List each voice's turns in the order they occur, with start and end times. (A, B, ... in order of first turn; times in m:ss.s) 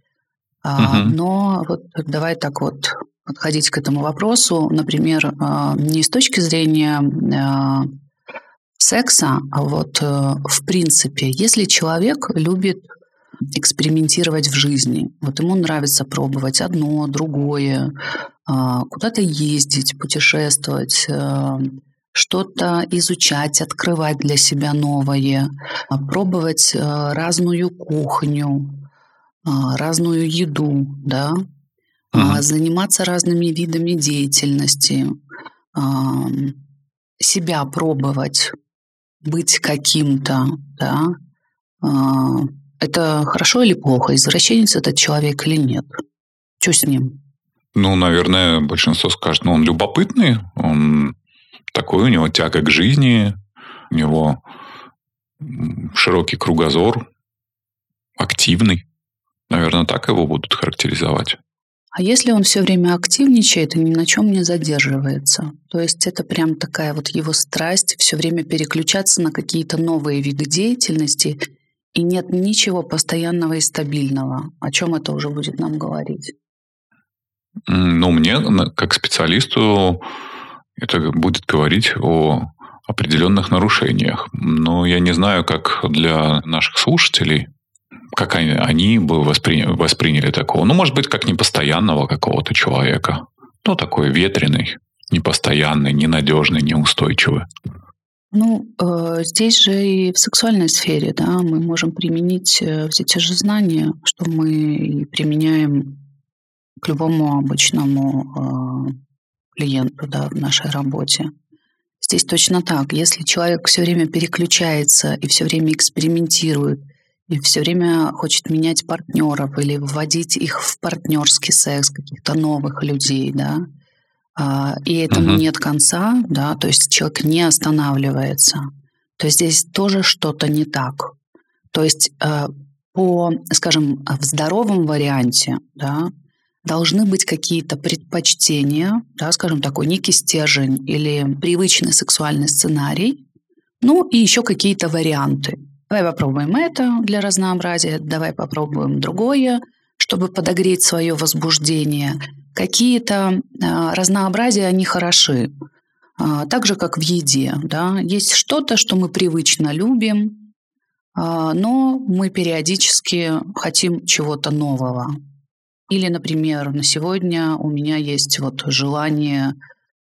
0:00.6-0:07.9 A
0:00.8-0:01.1 B
0:08.8-0:12.8 A
0:13.5-0:17.9 A
0:18.4-0:28.8 A
0:29.4-0:31.4 A
0:32.1-0:35.2 A
0:32.1-0:32.4 B
0:35.7-0:36.6 A
0:37.2-0:38.5 A
0:39.2-0:41.1 A
0:41.8-0:46.0 A
0:46.6-0:47.2 A
0:47.7-0:51.2 B
0:51.7-0:53.4 B
0:53.9-0:54.4 B
0:55.4-0:57.0 B
0:58.2-0:58.8 B
0:59.5-1:01.4 B
1:01.9-1:11.4 A
1:11.9-1:16.3 A
1:17.7-1:20.0 B
1:20.8-1:27.5 B
1:28.1-1:37.5 B
1:38.3-1:46.0 A
1:46.8-1:49.0 A
1:49.6-1:51.3 A
1:52.0-2:03.6 A
2:04.4-2:11.1 A
2:05.1-2:05.4 B
2:11.7-2:16.1 A
2:16.6-2:23.2 A
2:23.8-2:35.5 A
2:36.2-2:40.4 A
2:41.1-2:45.2 A
2:45.9-2:49.5 A